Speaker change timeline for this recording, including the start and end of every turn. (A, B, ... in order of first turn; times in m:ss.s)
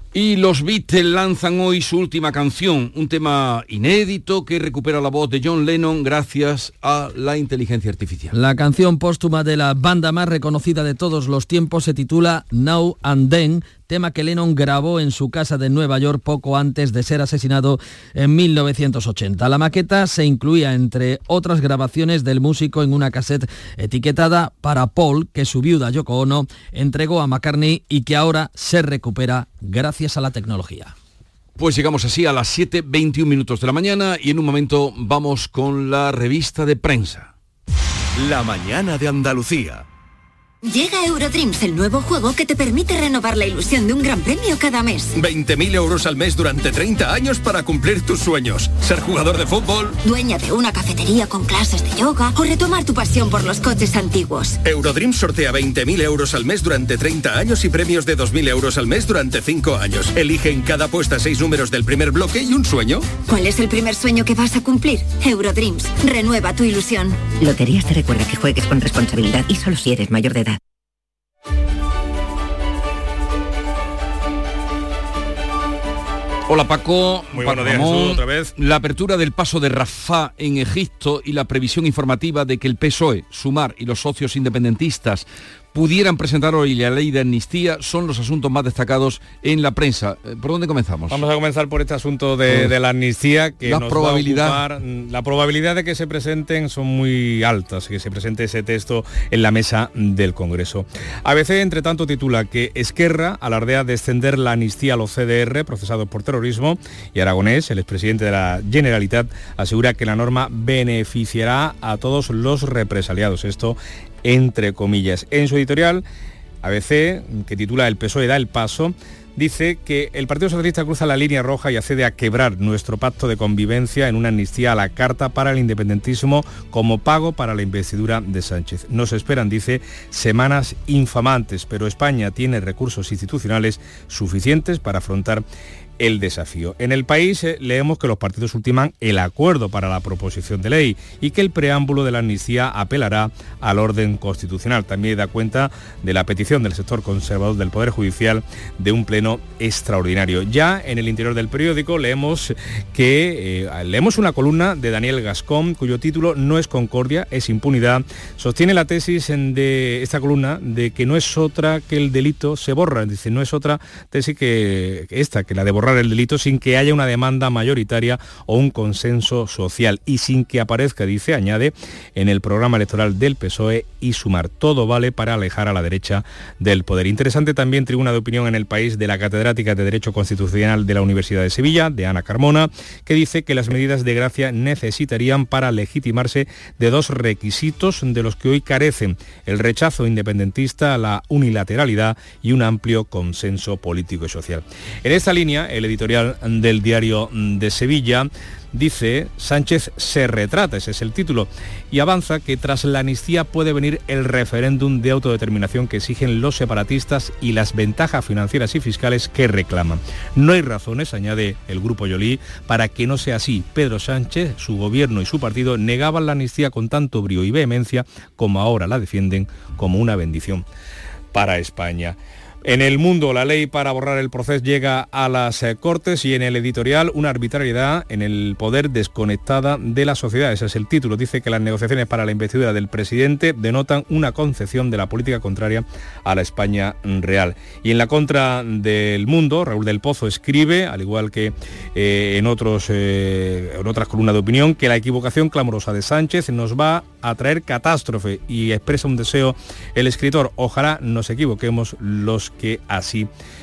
0:00.1-0:08.3 A
0:08.3-0:30.9 B
0:31.6-0:37.3 A
0:38.3-0:39.7 A
0:40.6-0:45.1 C
0:45.2-0:50.0 D
0:50.0-0:54.6 C
0:54.6-1:03.1 D
1:03.2-1:07.3 C
1:07.4-1:10.6 E
1:16.5-1:31.2 A
1:17.3-1:18.5 F
1:31.1-1:56.0 F
1:32.5-1:32.7 A
1:33.6-1:34.6 A
1:56.6-2:15.4 F
2:16.0-3:40.6 F
3:41.3-4:13.3 F